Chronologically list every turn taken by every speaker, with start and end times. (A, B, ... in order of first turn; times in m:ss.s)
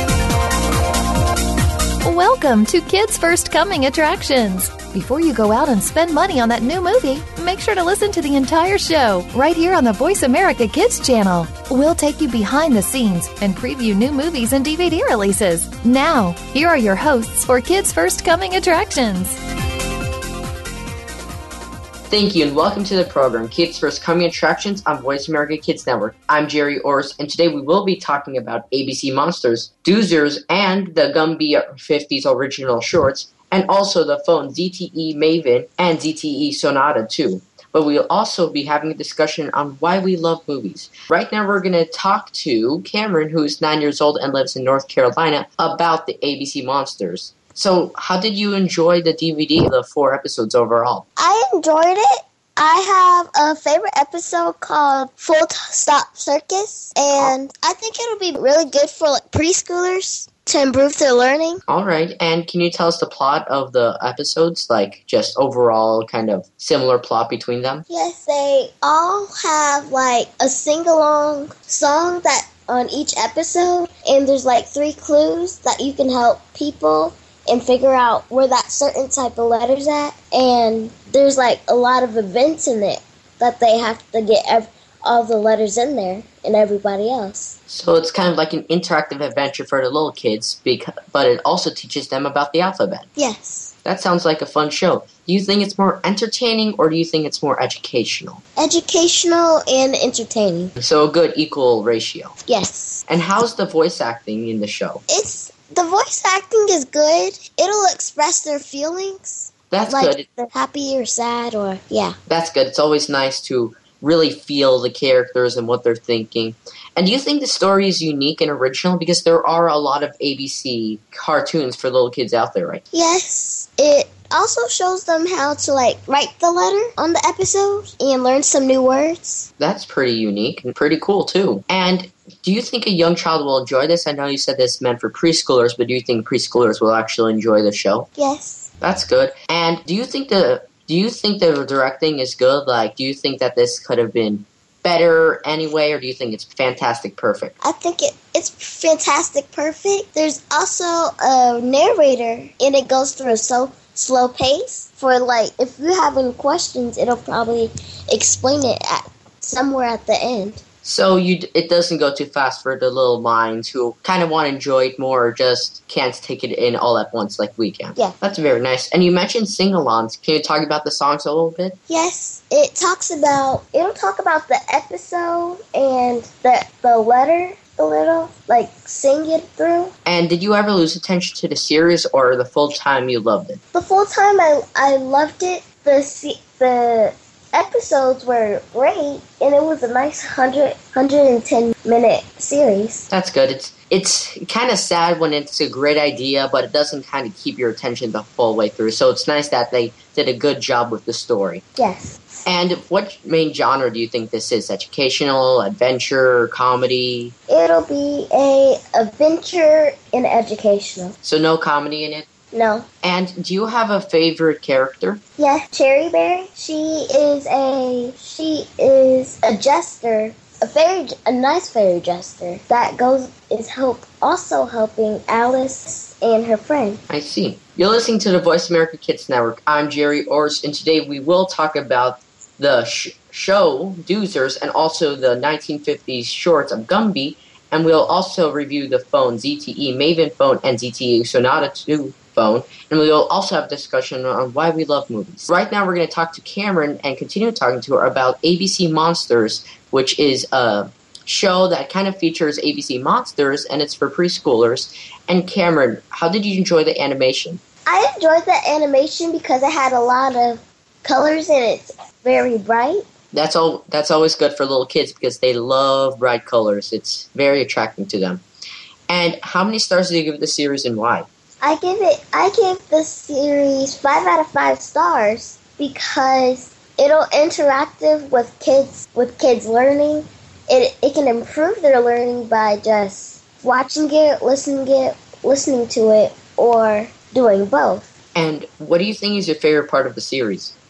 0:02.0-0:19.4 A
0:22.1-0:51.0 B
0:51.2-1:01.6 C
1:01.7-1:07.8 B
1:07.9-1:27.6 C
1:27.7-1:33.1 B
1:33.2-1:33.7 C
1:33.8-1:38.4 B
1:38.6-1:40.7 C
1:40.8-1:42.3 B
1:42.5-1:43.0 C
1:43.1-1:45.0 B
1:45.1-1:52.2 C
1:49.7-1:50.3 B
1:52.3-2:02.8 B
2:02.9-2:09.5 C
2:09.6-2:18.1 B
2:18.2-2:18.7 C
2:18.8-2:27.5 B
2:27.6-2:40.6 C
2:40.8-2:51.8 B
2:51.9-2:59.9 C
3:00.0-3:03.6 B
3:03.7-3:13.1 C
3:13.1-3:21.6 B
3:21.8-3:22.4 C
3:22.5-3:27.3 B
3:27.5-3:31.1 C
3:31.2-3:32.3 B
3:32.5-3:32.9 C
3:33.0-3:35.2 B
3:35.4-3:47.0 C
3:47.1-4:17.6 B
4:17.8-4:23.1 C
4:23.3-4:28.4 B
4:29.1-4:31.3 B
4:31.6-4:48.1 C
4:48.3-4:50.7 B